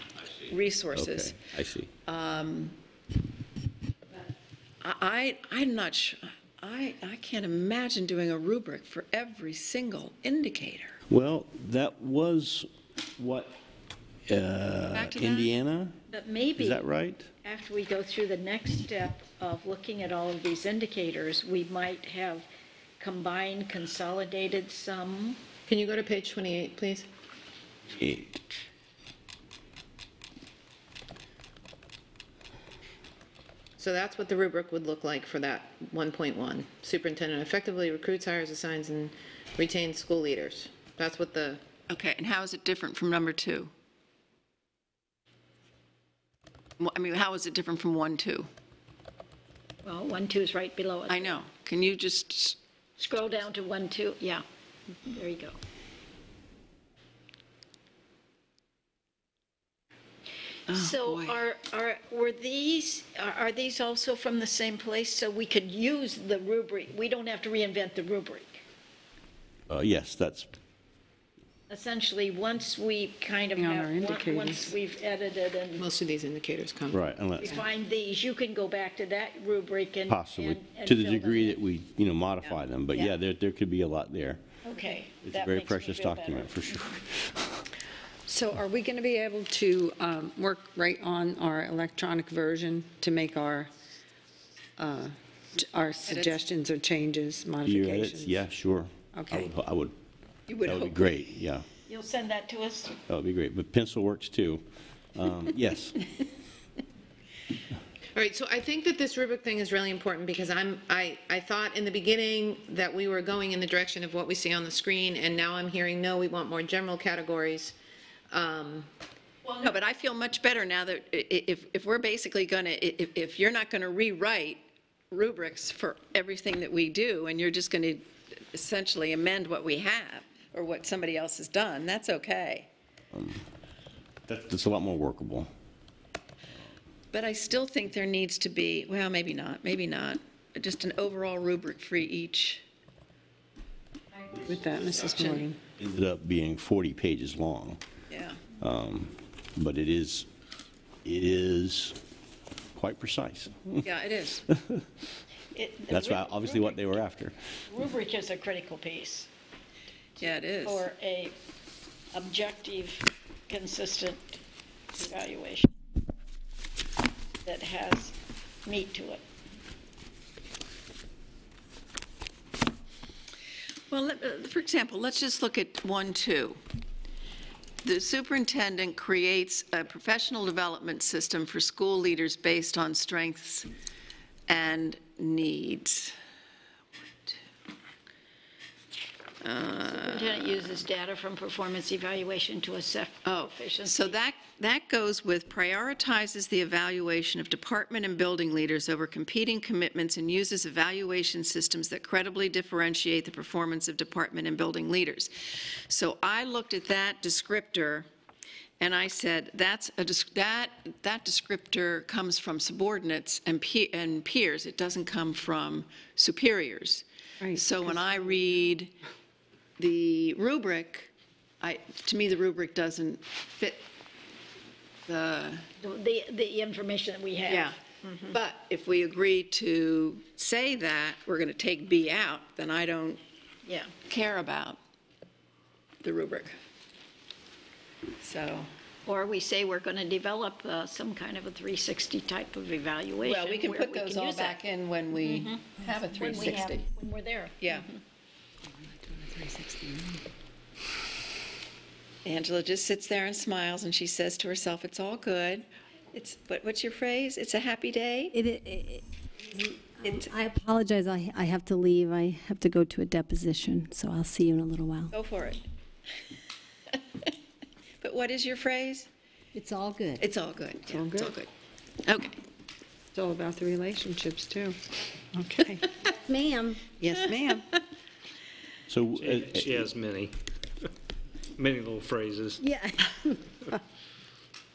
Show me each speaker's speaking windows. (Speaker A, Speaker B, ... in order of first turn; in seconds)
Speaker A: 0.5-1.4, 2.0-2.8, 4.8-11.0, 14.9-15.5, 41.9-43.7, 46.8-48.5, 51.1-52.6, 60.7-61.4, 96.1-96.4, 100.5-101.2, 119.6-132.7, 137.1-142.6, 144.8-145.5, 148.1-148.4, 153.8-154.4, 160.2-160.9, 173.9-176.6, 177.8-183.7, 184.5-186.2, 189.4-190.8, 193.2-205.3, 205.9-208.1, 208.8-218.9, 219.8-223.9, 225.1-225.7, 227.5-227.8, 228.3-233.2, 234.1-234.8, 236.0-236.6, 238.2-238.7, 243.2-246.9, 247.6-247.9, 252.2-258.4, 260.0-260.3, 265.1-265.6, 268.0-269.1, 270.2-271.5, 272.1-272.4
Speaker B: 0.9-1.9, 11.1-13.6, 14.3-16.0, 16.6-17.3, 27.9-28.3, 69.7-70.5, 76.9-77.6, 80.1-84.4, 85.2-87.6, 97.6-100.0, 100.7-101.7, 103.1-104.6, 105.2-106.0, 133.1-133.4, 134.3-135.5, 145.8-147.8, 148.6-150.3, 151.0-152.0, 152.8-153.8, 154.5-154.8, 155.9-157.4, 278.9-279.9
Speaker C: 16.1-16.9, 17.4-22.5, 23.0-25.4, 49.8-51.4, 53.0-54.4, 55.0-55.6, 60.7-68.6, 71.7-75.9, 77.4-81.6, 84.6-86.8, 101.9-103.0, 155.5-156.8, 157.7-159.3, 160.6-161.4, 162.1-164.4, 164.9-165.7, 167.4-169.2, 189.8-194.2, 225.8-227.8, 233.7-233.9, 239.1-244.6, 245.2-248.0
Speaker D: 25.7-27.1, 33.8-41.6, 75.8-77.0, 108.2-117.8, 118.3-118.9
Speaker E: 73.6-74.8, 88.3-93.7, 94.8-98.4, 99.1-99.5, 144.2-145.6, 217.4-218.2, 270.9-271.3, 273.1-274.8, 275.3-276.2, 276.8-277.7
Speaker F: 248.8-250.2, 258.3-265.1, 269.6-270.2, 276.3-276.8, 282.6-283.4
Speaker G: 279.1-280.3, 281.6-282.6